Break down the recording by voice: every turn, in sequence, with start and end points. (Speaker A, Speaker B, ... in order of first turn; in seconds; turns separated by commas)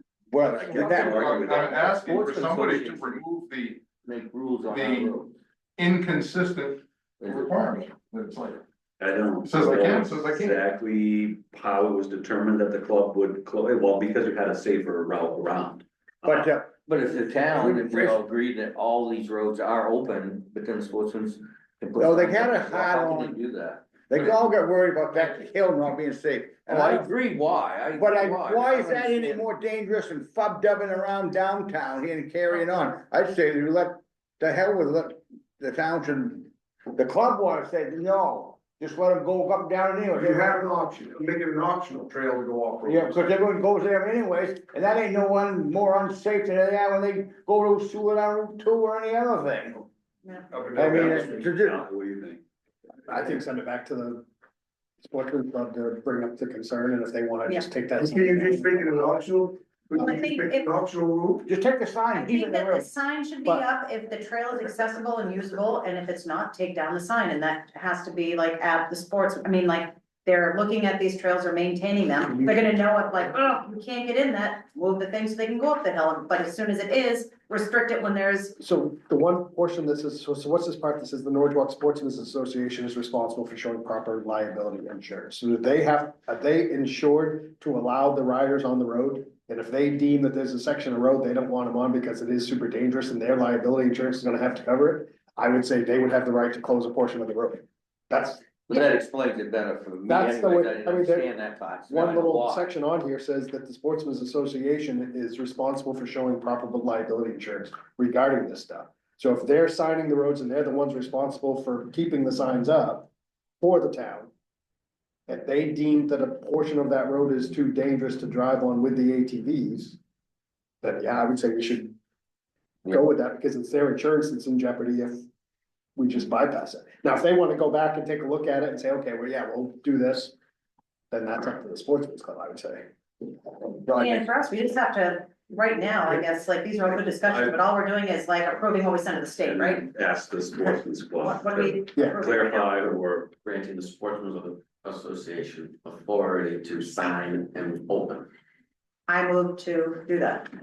Speaker A: 0.3-1.8, Speaker B: 0.6-1.5, Speaker C: 0.6-3.9, Speaker D: 0.9-3.2, Speaker D: 4.0-5.3, Speaker C: 4.7-5.1, Speaker C: 5.8-8.6, Speaker D: 7.2-7.7, Speaker B: 9.0-16.4, Speaker C: 9.4-10.6, Speaker A: 16.2-16.7, Speaker D: 16.8-24.3, Speaker A: 17.5-18.2, Speaker A: 21.9-23.4, Speaker A: 24.1-27.1, Speaker D: 26.7-29.5, Speaker A: 27.9-40.7, Speaker E: 40.2-43.0, Speaker A: 42.8-49.9, Speaker E: 50.5-51.5, Speaker B: 50.7-52.4, Speaker A: 50.7-51.8, Speaker F: 53.1-54.2, Speaker F: 55.0-58.8, Speaker E: 58.0-61.5, Speaker G: 60.0-60.6, Speaker A: 61.4-62.9, Speaker G: 62.1-78.5, Speaker F: 78.6-98.4, Speaker D: 98.7-102.7, Speaker F: 100.0-101.3, Speaker F: 101.9-113.1, Speaker F: 113.6-114.3, Speaker F: 115.3-120.0, Speaker F: 120.8-122.0, Speaker F: 122.8-125.3, Speaker F: 126.0-130.3, Speaker F: 131.1-132.9, Speaker A: 133.8-134.2, Speaker G: 133.9-139.8, Speaker B: 137.1-137.6, Speaker B: 139.4-143.3, Speaker G: 141.2-142.8, Speaker H: 143.3-148.3, Speaker G: 149.1-150.5